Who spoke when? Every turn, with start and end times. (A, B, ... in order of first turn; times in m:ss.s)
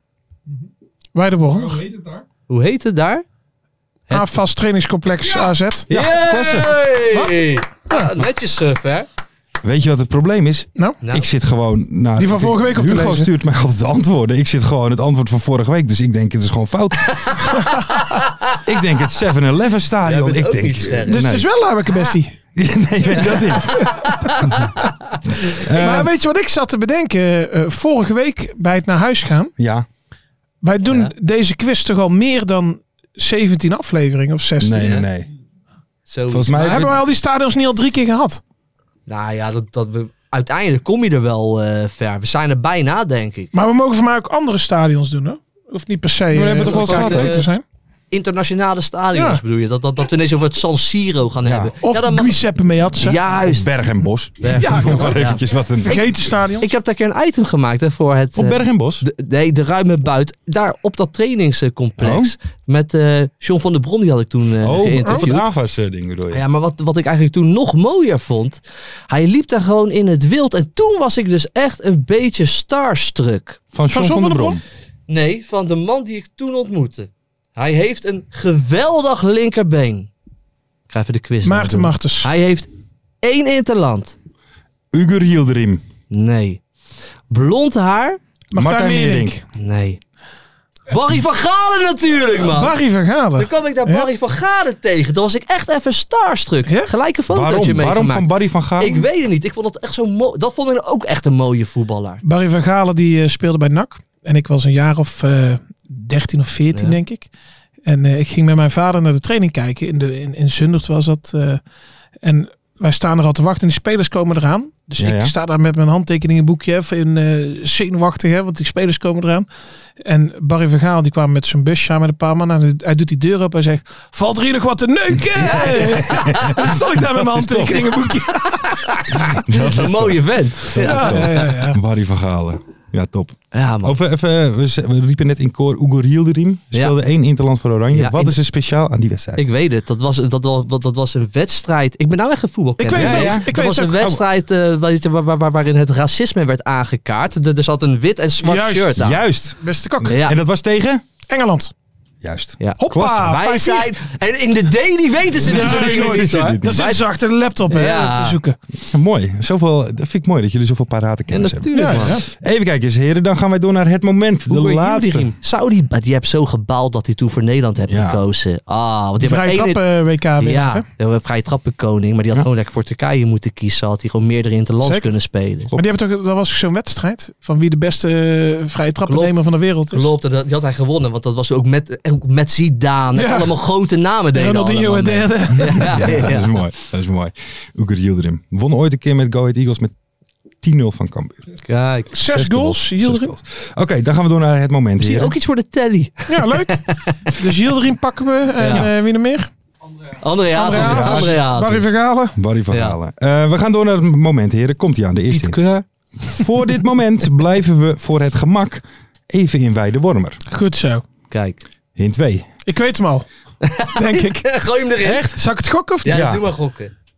0:01.1-0:01.9 A
0:02.5-0:03.2 B
0:04.1-0:04.3 B
0:04.1-0:05.9 A
0:05.3-0:09.1 B
0:05.9-0:06.7 C
0:07.1-0:08.1 A
0:09.6-0:17.3 C
0:11.0-0:11.3 B
0:12.2-0:13.3 A
0:17.1-0:18.6 B
0:18.6-0:21.5 C
0:20.0-0:21.3 B
0:21.1-0:22.4 A
0:22.6-0:24.0 C
0:23.1-0:25.2 B
0:23.7-0:24.5 A
0:25.4-0:26.1 C
0:25.5-0:29.5 A
0:29.6-0:29.8 C
0:30.6-0:35.0 A
0:30.8-0:31.1 B
0:34.6-0:35.3 C
0:34.8-0:35.0 B
0:36.1-0:36.9 B
0:36.3-0:37.0 C
0:36.6-0:38.4 A
0:39.1-0:43.5 B
0:43.5-0:47.6 A
0:46.3-0:47.4 C
0:46.5-0:47.5 B
0:48.1-0:52.4 B
0:49.1-0:49.4 A
0:51.4-0:51.7 C
0:51.8-0:53.2 A
0:53.0-0:53.7 B
0:53.4-0:56.1 C
0:54.4-0:55.4 B
0:54.6-0:55.2 A
0:55.8-0:56.7 A
0:56.6-1:05.5 B
0:58.4-0:59.0 C
1:02.0-1:02.3 C
1:04.6-1:06.4 C
1:06.3-1:13.6 B
1:13.7-1:14.6 C
1:13.9-1:14.6 A
1:15.1-1:20.1 B
1:20.9-1:22.7 B
1:21.4-1:22.3 A
1:23.2-1:24.2 B
1:24.9-1:25.8 C
1:26.1-1:26.6 B
1:27.3-1:28.2 B
1:28.5-1:29.4 A
1:28.5-1:29.4 C
1:29.6-1:30.0 B
1:30.9-1:32.8 B
1:32.4-1:34.1 A
1:33.3-1:42.2 B
1:36.6-1:36.9 A
1:37.3-1:39.0 C
1:42.2-1:47.3 A
1:46.7-1:47.0 B
1:47.8-1:51.6 A
1:52.2-1:59.5 A
1:55.0-1:55.3 C
2:00.0-2:08.8 A
2:05.3-2:06.7 B
2:06.2-2:08.1 C
2:08.3-2:11.6 B
2:09.3-2:19.4 C
2:10.7-2:11.8 A
2:13.5-2:14.0 B
2:17.9-2:18.4 B
2:19.4-2:29.2 B
2:22.8-2:24.1 A
2:22.9-2:24.2 C
2:28.4-2:29.0 A
2:29.0-2:31.0 C
2:29.6-2:30.1 A
2:30.0-2:30.4 B
2:31.2-2:31.7 A
2:32.2-2:33.4 C
2:32.6-2:37.0 B
2:32.8-2:33.9 A
2:35.5-2:36.8 C
2:35.5-2:38.6 A
2:37.7-2:38.4 B
2:38.9-2:45.3 C
2:41.3-2:42.2 B
2:41.7-2:42.2 A
2:44.5-2:49.8 B
2:47.9-2:48.2 C
2:49.2-2:50.8 A
2:50.4-2:55.7 B
2:54.8-2:55.1 A
2:55.7-3:00.1 A
2:59.0-3:06.5 B
3:03.1-3:03.6 A
3:04.3-3:06.2 A
3:05.7-3:09.9 C
3:10.6-3:11.5 C
3:11.6-3:12.2 B
3:12.1-3:13.3 A
3:12.2-3:15.3 C
3:15.0-3:17.4 B
3:16.3-3:19.5 A
3:18.6-3:18.9 B
3:20.2-3:21.9 B
3:20.5-3:22.3 A
3:20.7-3:21.4 C
3:22.4-3:25.6 C
3:22.7-3:23.0 B
3:25.3-3:25.8 B
3:26.3-3:30.4 C
3:30.5-3:31.0 A
3:31.3-3:31.6 B
3:32.0-3:32.5 C
3:32.6-3:33.3 A
3:33.6-3:35.4 B
3:33.9-3:36.2 A
3:36.0-3:36.9 B
3:36.1-3:36.4 C